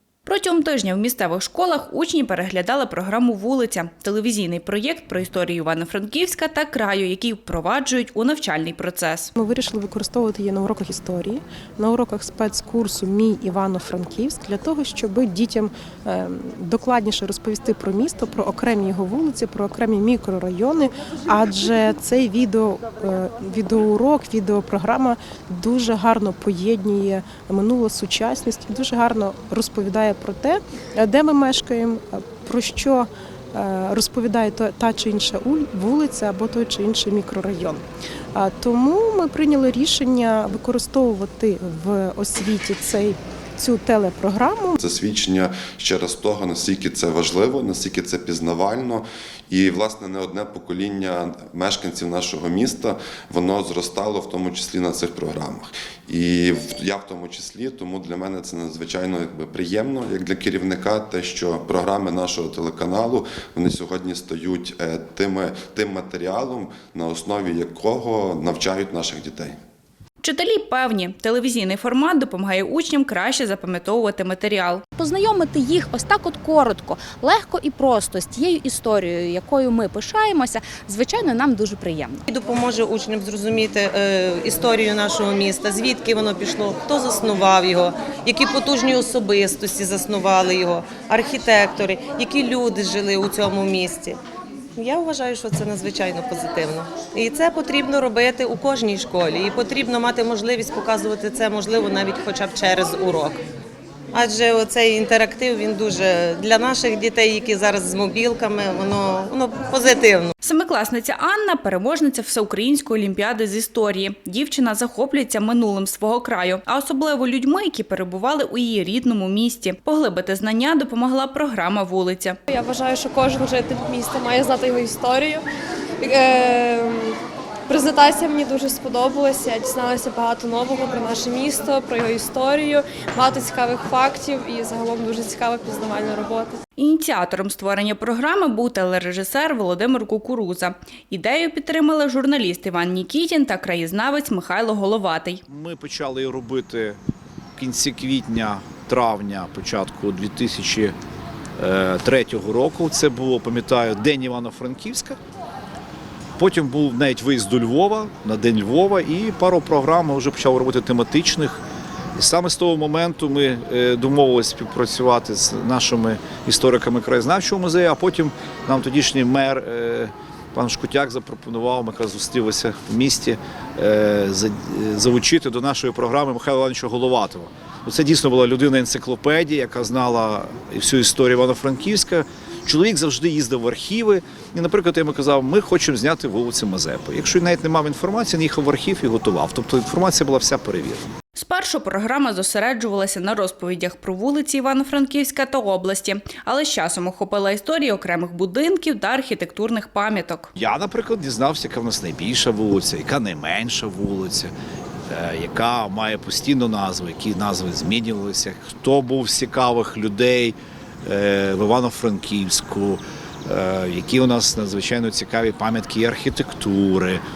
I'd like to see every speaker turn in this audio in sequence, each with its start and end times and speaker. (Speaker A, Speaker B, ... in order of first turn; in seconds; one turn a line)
Speaker A: 0.2-9.3
Speaker B: 9.4-37.8
Speaker B: 38.3-44.8
Speaker C: 44.8-69.6
Speaker A: 70.2-74.8
Speaker D: 75.0-82.2
Speaker E: 82.3-94.2
Speaker E: 94.8-103.4
Speaker E: 104.1-110.3
Speaker A: 110.4-122.4
Speaker F: 122.5-125.5
Speaker F: 126.0-136.6
Speaker A: 136.8-145.4
Speaker G: 145.5-147.0
Speaker G: 147.6-150.9
Speaker G: 151.6-155.2
Speaker G: 156.4-161.6
Speaker G: 162.2-191.1
Speaker A: 191.3-200.5
Speaker G: 200.6-204.5
Speaker G: 205.1-217.2